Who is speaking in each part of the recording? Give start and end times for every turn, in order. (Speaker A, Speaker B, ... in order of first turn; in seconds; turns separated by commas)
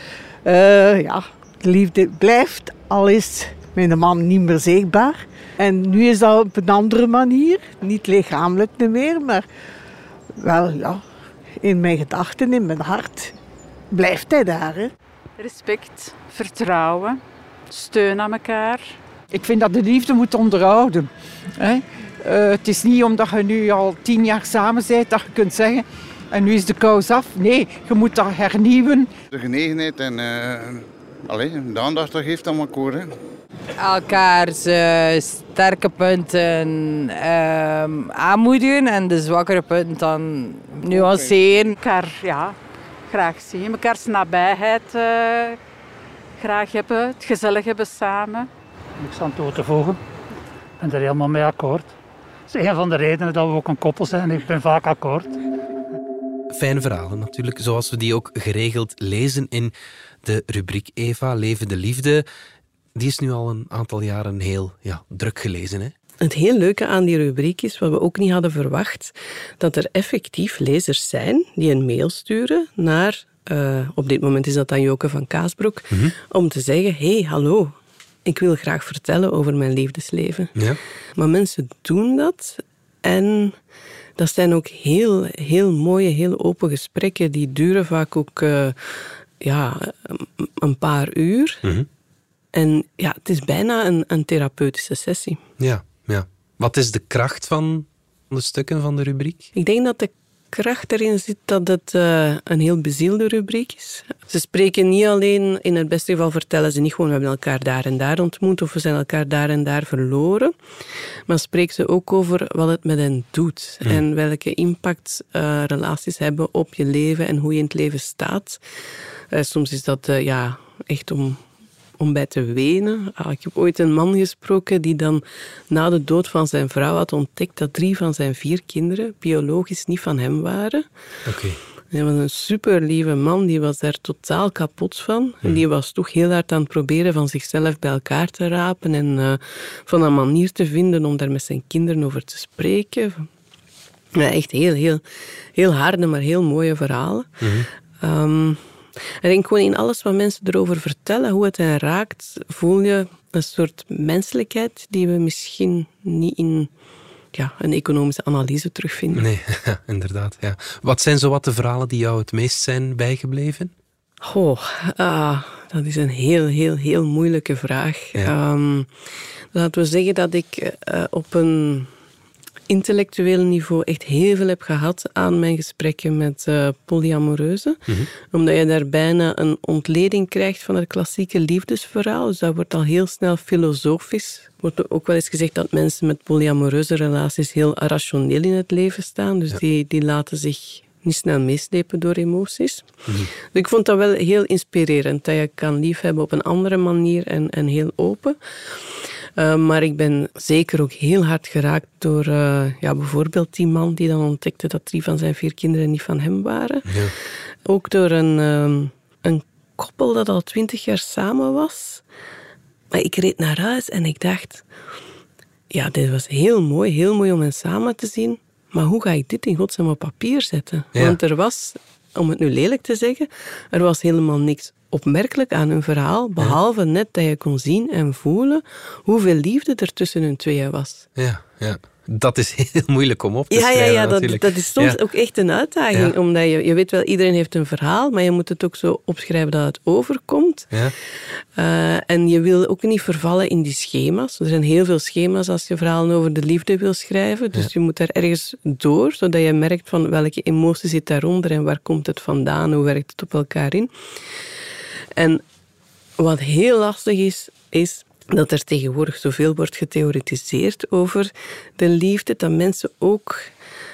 Speaker A: 0.4-9.4, Speaker A: 10.4-11.0, Speaker A: 11.6-13.3, Speaker A: 13.9-14.9, Speaker B: 15.4-19.0, Speaker C: 19.3-29.1, Speaker D: 29.3-33.1, Speaker E: 33.8-41.8, Speaker B: 41.8-42.5, Speaker B: 43.1-45.6, Speaker B: 46.4-48.5, Speaker F: 49.0-50.0, Speaker F: 50.8-51.9, Speaker F: 52.5-55.3, Speaker G: 56.5-59.7, Speaker G: 60.2-62.2, Speaker G: 62.9-65.9, Speaker H: 66.2-77.7, Speaker H: 78.2-80.5, Speaker H: 81.2-83.6, Speaker H: 84.2-91.6, Speaker H: 92.5-95.4, Speaker G: 95.6-99.5, Speaker H: 99.5-110.5, Speaker H: 111.3-118.6, Speaker H: 119.3-121.4, Speaker H: 122.0-130.8, Speaker G: 131.2-131.6, Speaker H: 131.9-143.3, Speaker H: 144.1-145.0, Speaker H: 145.6-147.4, Speaker G: 147.4-147.7, Speaker H: 148.0-148.6, Speaker H: 149.2-156.7, Speaker H: 157.3-159.3, Speaker G: 159.1-163.7, Speaker H: 164.2-168.9, Speaker H: 169.5-171.9, Speaker H: 172.7-207.0, Speaker G: 206.9-207.1, Speaker H: 207.6-212.0, Speaker H: 212.9-214.6, Speaker H: 215.7-231.1, Speaker G: 231.2-235.0, Speaker H: 233.5-240.7, Speaker H: 241.5-253.9, Speaker H: 255.1-255.4, Speaker H: 256.2-263.5